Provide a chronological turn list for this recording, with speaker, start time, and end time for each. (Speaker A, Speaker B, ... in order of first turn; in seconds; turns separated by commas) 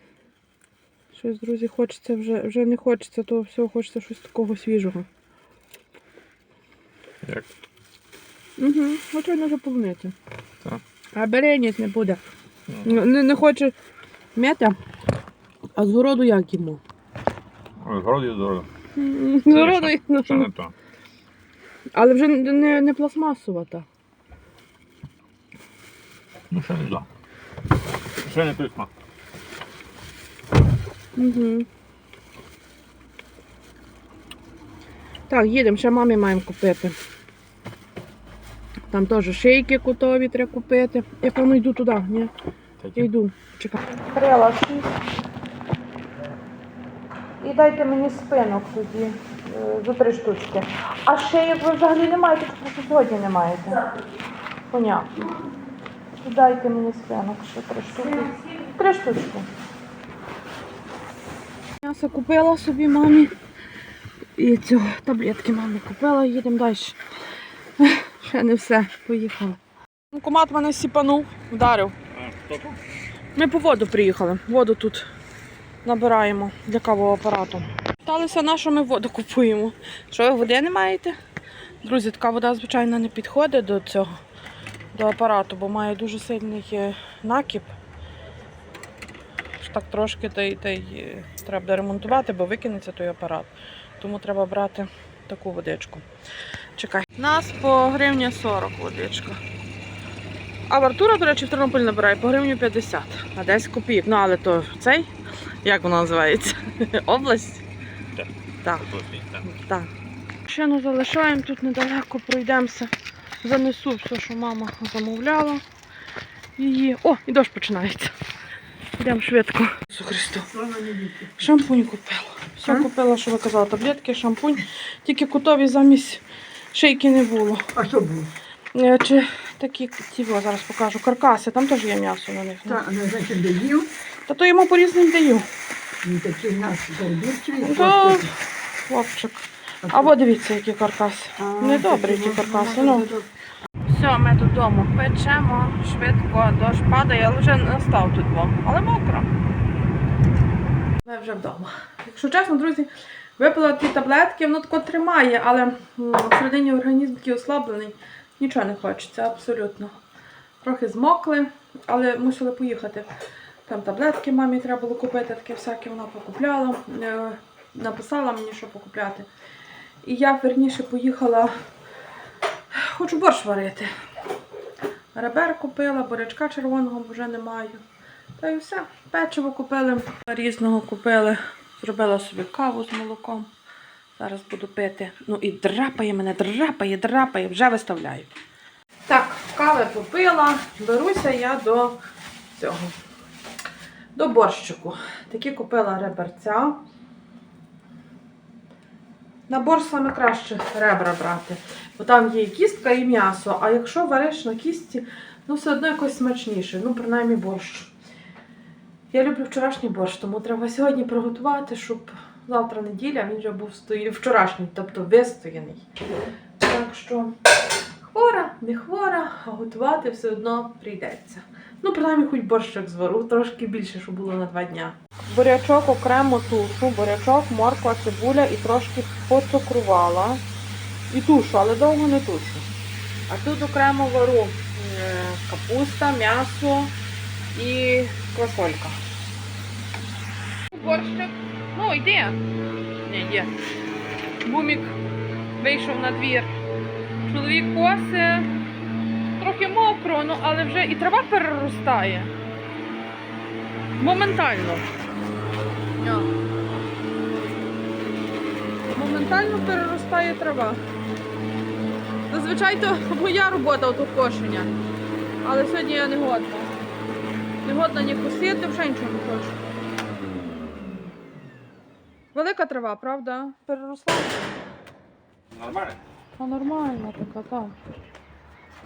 Speaker A: 1.1-5.1, Speaker A: 8.6-10.1, Speaker A: 11.2-12.2, Speaker B: 12.7-13.0, Speaker A: 12.8-13.7, Speaker A: 14.3-14.8, Speaker A: 15.8-16.8, Speaker B: 17.8-18.7, Speaker A: 19.0-20.5, Speaker B: 19.5-20.7, Speaker A: 21.9-23.9, Speaker B: 26.5-27.1, Speaker B: 28.2-28.9, Speaker A: 31.2-31.7, Speaker A: 35.3-37.0, Speaker A: 38.9-42.3, Speaker B: 42.8-43.1, Speaker A: 43.0-45.0, Speaker A: 47.4-53.8, Speaker A: 54.7-55.3, Speaker A: 56.2-59.5, Speaker A: 61.8-63.3, Speaker A: 64.4-67.0, Speaker A: 67.8-69.6, Speaker A: 70.1-72.0, Speaker B: 72.1-72.8, Speaker A: 73.3-75.1, Speaker A: 75.8-81.2, Speaker A: 81.8-84.2, Speaker A: 84.9-87.7, Speaker A: 89.6-96.0, Speaker A: 96.8-99.4, Speaker A: 100.7-105.1, Speaker A: 105.6-107.7, Speaker B: 108.2-109.4, Speaker A: 109.4-109.9, Speaker A: 110.5-115.6, Speaker A: 116.6-118.1, Speaker A: 119.0-120.5, Speaker C: 120.5-121.3, Speaker A: 121.4-127.7, Speaker C: 127.8-128.3, Speaker A: 128.7-132.8, Speaker C: 132.7-133.9, Speaker A: 134.3-135.5, Speaker C: 136.0-138.3, Speaker A: 137.6-138.3, Speaker A: 138.9-143.1, Speaker C: 139.8-140.1, Speaker C: 141.4-143.3, Speaker A: 143.9-149.3, Speaker A: 151.0-159.9, Speaker A: 160.6-163.1, Speaker A: 163.7-169.3, Speaker A: 170.0-171.5, Speaker A: 172.7-173.9, Speaker A: 175.1-177.8, Speaker A: 178.4-183.5, Speaker A: 184.2-188.3, Speaker A: 189.1-192.0, Speaker A: 192.5-193.0, Speaker A: 194.2-196.8, Speaker A: 199.5-207.9, Speaker A: 209.1-215.8, Speaker A: 216.6-217.3, Speaker A: 218.0-230.4, Speaker A: 231.1-232.7, Speaker A: 233.3-236.9, Speaker A: 237.5-239.0, Speaker A: 240.7-242.4, Speaker A: 243.1-243.5, Speaker A: 244.4-245.0, Speaker A: 245.6-246.5, Speaker A: 247.2-248.5, Speaker A: 249.4-252.3, Speaker A: 254.0-254.9, Speaker A: 256.0-256.3, Speaker A: 258.9-260.8, Speaker A: 262.3-264.7, Speaker A: 265.4-266.7, Speaker A: 267.6-269.6, Speaker A: 272.3-274.5, Speaker B: 275.5-276.0, Speaker A: 276.4-277.8